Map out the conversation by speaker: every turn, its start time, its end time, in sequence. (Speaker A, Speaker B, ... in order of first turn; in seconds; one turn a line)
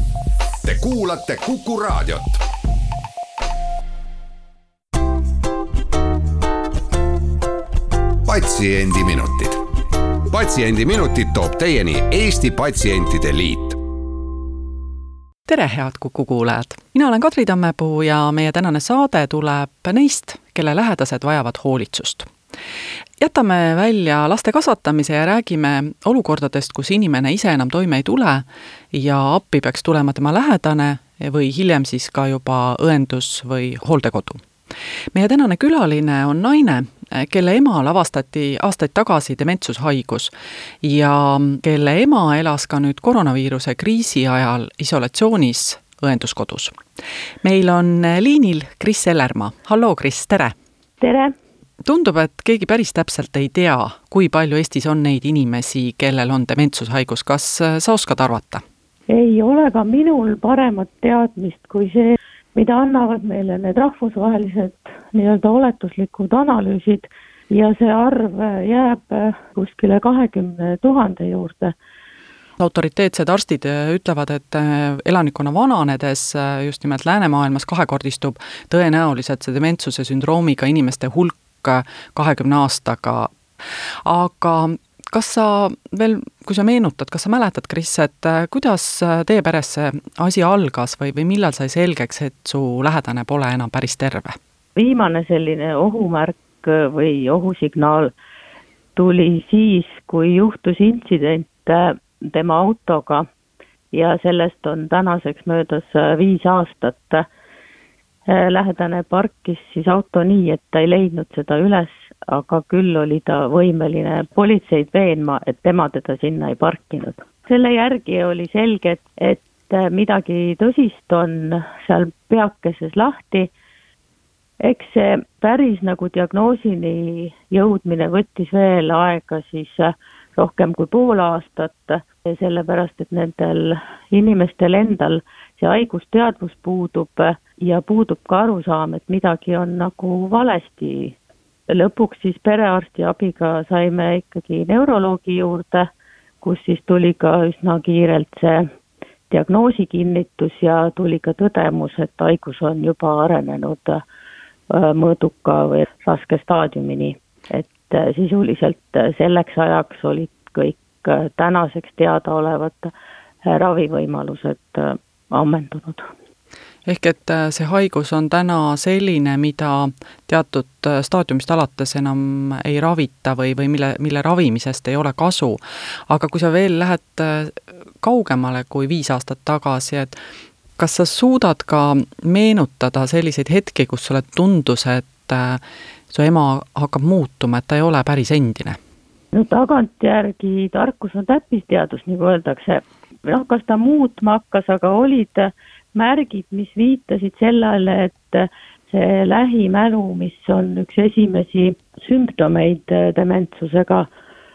Speaker A: 0.6-2.4
Speaker A: 8.2-9.6
Speaker A: 10.3-13.8
Speaker B: 15.5-22.3
Speaker B: 23.2-34.4
Speaker B: 35.1-40.3
Speaker B: 40.8-46.7
Speaker B: 47.4-50.5
Speaker C: 51.0-51.3
Speaker B: 51.8-58.6
Speaker C: 59.1-71.7
Speaker B: 72.6-94.3
Speaker C: 94.8-98.1
Speaker C: 98.9-103.2
Speaker C: 103.9-107.2
Speaker C: 108.3-123.5
Speaker C: 124.6-141.2
Speaker C: 141.7-145.9
Speaker C: 146.4-148.7
Speaker C: 149.3-154.0
Speaker C: 154.7-162.9
Speaker C: 163.4-166.1
Speaker B: 166.8-180.1
Speaker B: 180.8-188.8
Speaker C: 189.3-204.1